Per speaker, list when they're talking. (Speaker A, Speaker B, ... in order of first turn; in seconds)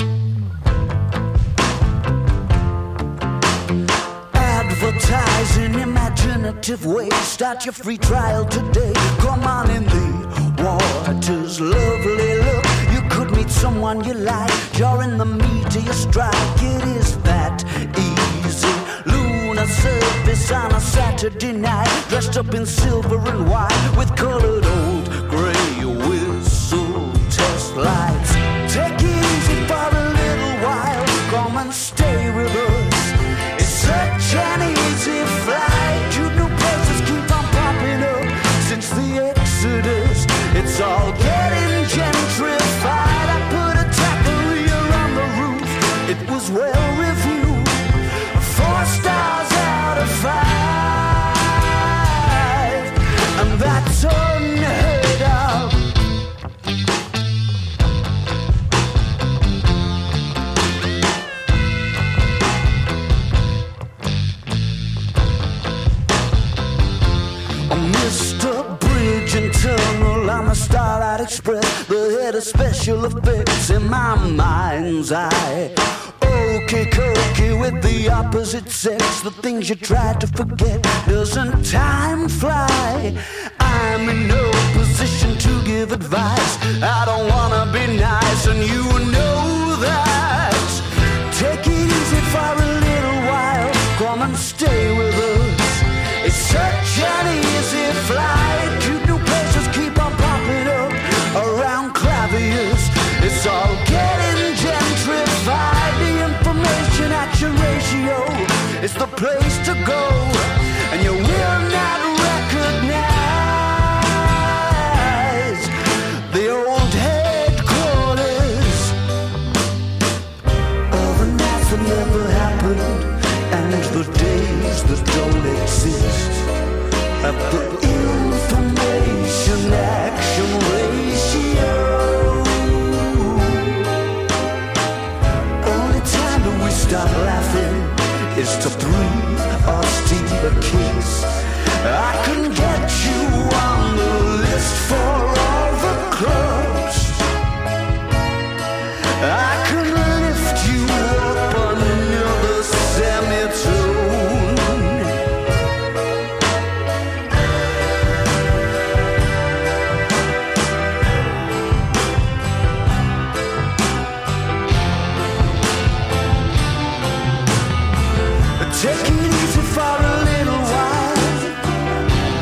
Speaker A: 4.3-55.9, 67.7-115.8, 116.3-119.0, 120.9-126.5, 127.2-133.9, 135.6-147.3, 149.2-155.2, 168.6-171.7